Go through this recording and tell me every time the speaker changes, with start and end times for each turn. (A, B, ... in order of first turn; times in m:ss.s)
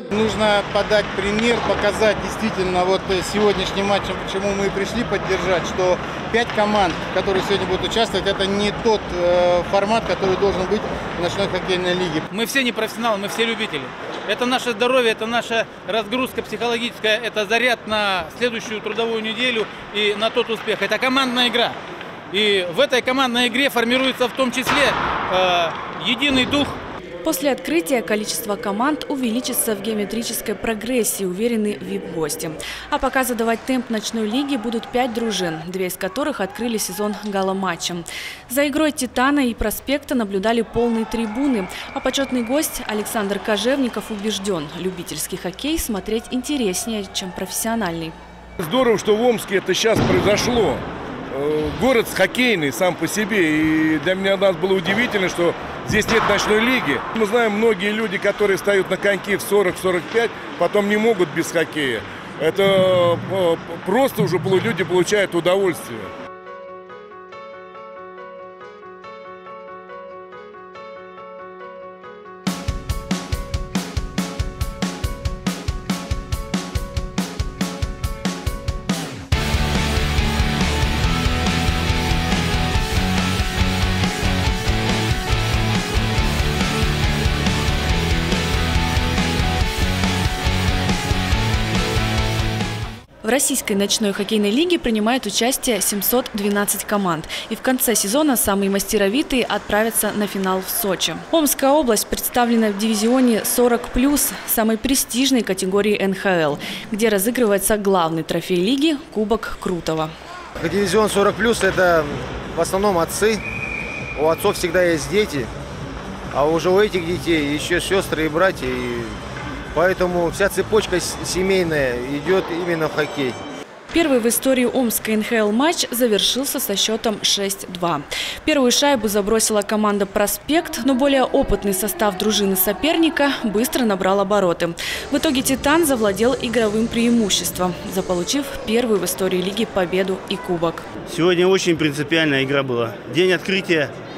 0:00.1-0:12.2 A
0:12.3-0:21.8 B
0:22.3-0:26.8 B
0:27.2-0:48.2 C
0:48.6-1:06.1 D
1:33.2-1:50.1 C
1:50.6-1:53.4 E
1:54.2-1:55.5 E
1:56.3-1:59.1 E
1:59.7-2:03.4 E
2:03.9-2:20.8 C
2:21.1-2:23.9 F